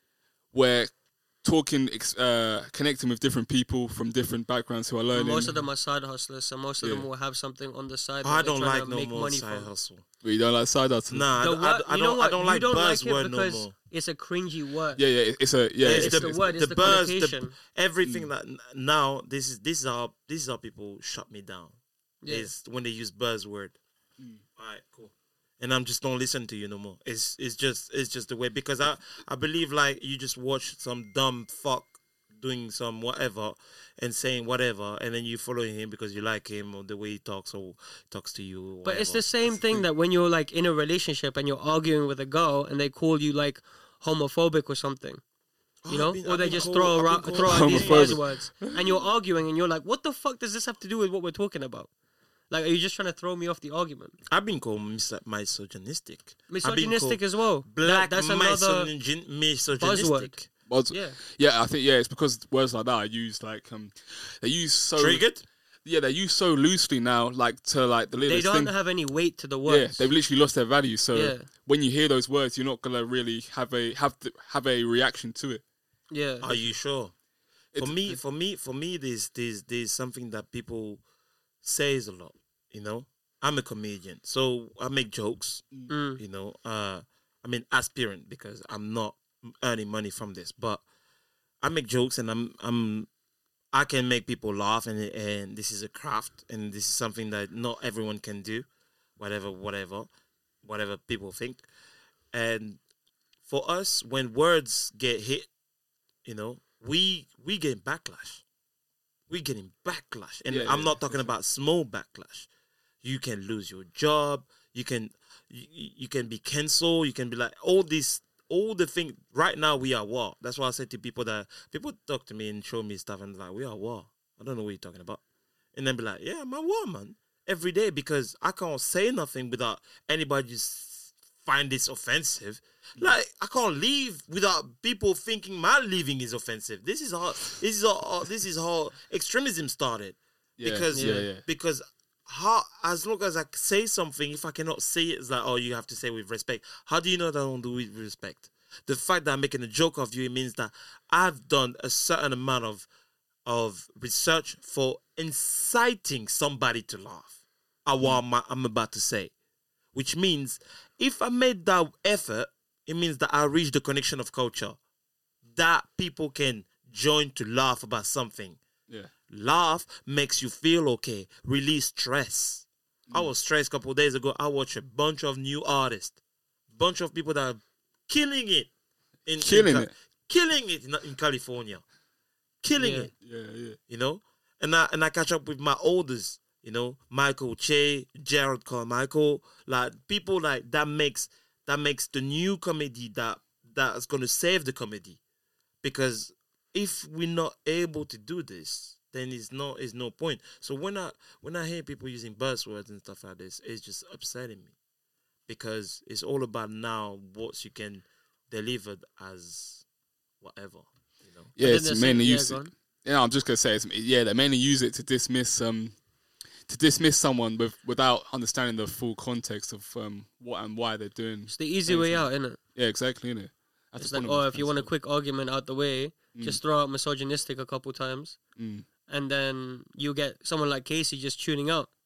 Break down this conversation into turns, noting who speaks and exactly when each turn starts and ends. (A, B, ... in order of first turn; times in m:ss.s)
0:00.5-0:05.6 A
0:05.1-0:09.7 B
0:06.8-0:07.1 A
0:08.2-0:10.0 C
0:10.2-0:11.3 A
0:11.1-0:13.7 C
0:11.4-0:15.0 B
0:15.0-0:16.4 A
0:15.8-0:23.8 C
0:15.8-0:17.5 B
0:22.2-0:22.5 B
0:24.6-0:39.3 C
0:38.8-0:45.2 B
0:45.8-0:48.2 C
0:45.9-0:51.9 B
0:47.4-0:49.0 A
0:52.5-0:54.2 B
0:54.3-1:00.5 C
0:56.5-0:58.9 B
0:59.8-1:00.3 B
1:00.7-1:05.2 A
1:00.9-1:01.2 B
1:05.0-1:05.4 C
1:05.8-1:08.7 A
1:08.2-1:10.1 B
1:09.6-1:15.6 A
1:11.1-1:11.5 B
1:16.1-1:16.5 B
1:16.4-1:17.1 C
1:17.7-1:18.2 A
1:17.8-1:21.0 C
1:21.6-1:30.8 C
1:25.9-1:26.2 B
1:31.6-1:33.1 C
1:33.7-1:38.7 C
1:39.2-1:40.1 C
1:40.6-1:41.6 C
1:42.3-1:42.8 C
1:43.5-1:45.5 C
1:46.2-1:48.4 C
1:49.3-1:52.5 C
1:50.5-1:51.2 A
1:53.0-2:05.2 C
2:05.7-2:32.9 C
2:20.6-2:21.4 A
2:20.9-2:21.3 B
2:33.4-2:37.3 C
2:37.8-2:39.3 C
2:39.9-2:44.8 C
2:45.4-2:48.6 C
2:49.3-2:56.2 C
2:56.7-2:58.7 C
2:59.2-3:01.8 C
2:59.4-2:59.9 A
3:02.6-3:03.1 C
3:02.8-3:03.1 B
3:03.2-3:03.8 A
3:03.9-3:15.2 C
3:15.8-3:24.7 C
3:25.5-3:29.8 C
3:30.4-3:31.5 C
3:31.6-3:35.9 A
3:31.6-3:32.7 B
3:36.7-3:44.9 A
3:41.5-3:42.6 B
3:44.0-3:48.4 B
3:46.3-3:46.6 A
3:48.6-3:48.8 A
3:49.1-3:51.9 B